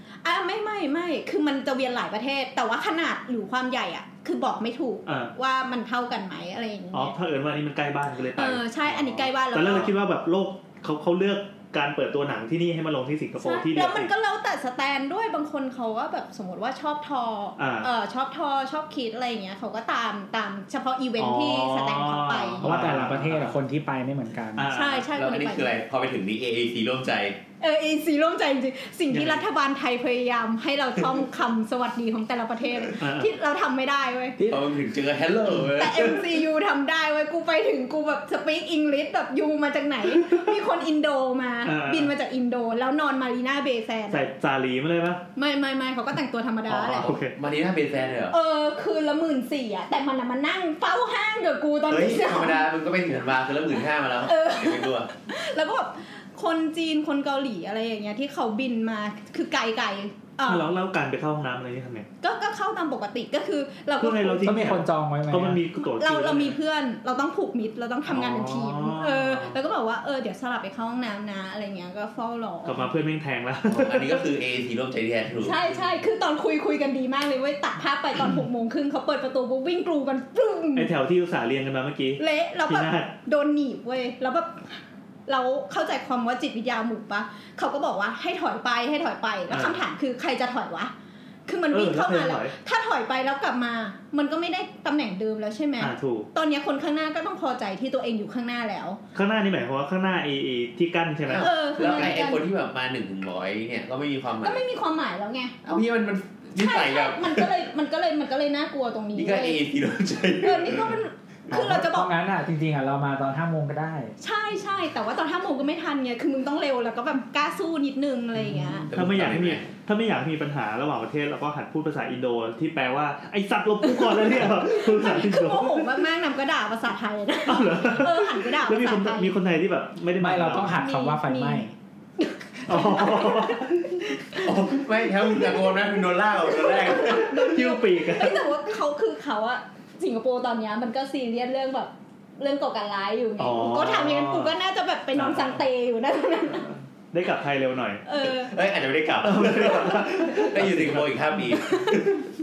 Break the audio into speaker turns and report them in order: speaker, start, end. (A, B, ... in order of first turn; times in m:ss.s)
0:00.2-0:07.1 A
0:05.0-0:05.3 B
0:06.9-0:14.1 B
0:08.4-0:09.9 A
0:13.4-0:22.6 A
0:17.6-0:17.9 B
0:21.2-0:23.5 B
0:22.6-0:24.7 C
0:24.6-0:25.1 B
0:24.7-0:25.7 A
0:25.1-0:27.4 D
0:27.6-0:34.4 A
0:29.1-0:29.4 B
0:33.0-0:33.3 B
0:34.4-0:34.7 C
0:34.5-0:36.4 D
0:35.8-0:44.3 A
0:41.6-0:42.1 B
0:44.1-0:45.2 B
0:45.4-0:47.1 A
0:46.7-0:48.3 D
0:46.8-0:47.3 B
0:48.3-0:52.7 A
0:51.9-0:55.1 D
0:54.2-1:00.7 A
1:00.4-1:02.1 B
1:02.2-1:04.7 A
1:04.0-1:06.6 B
1:04.4-1:05.6 C
1:05.9-1:12.8 A
1:08.0-1:09.6 B
1:12.6-1:14.2 B
1:13.6-1:15.6 D
1:15.4-1:20.9 A
1:20.7-1:23.1 B
1:22.2-1:30.9 A
1:29.5-1:29.8 B
1:31.5-1:39.0 A
1:31.7-1:32.5 B
1:35.8-1:36.3 B
1:39.1-1:42.2 B
1:41.3-1:44.6 D
1:41.4-1:42.4 A
1:44.4-1:45.5 A
1:45.6-1:47.5 D
1:46.6-1:49.6 A
1:49.1-1:51.0 D
1:50.4-1:52.1 A
1:51.5-1:54.1 C
1:54.2-1:58.9 A
1:58.4-2:06.0 B
1:58.9-1:59.6 D
2:03.8-2:09.3 A
2:07.5-2:10.8 B
2:10.2-2:11.7 C
2:10.7-2:11.6 A
2:12.2-2:26.7 A
2:12.7-2:14.1 B
2:14.4-2:17.5 D
2:17.0-2:18.4 B
2:23.4-2:24.5 B
2:25.1-2:25.6 B
2:26.5-2:28.0 B
2:28.0-2:28.5 A
2:28.2-2:32.3 D
2:29.2-2:31.6 B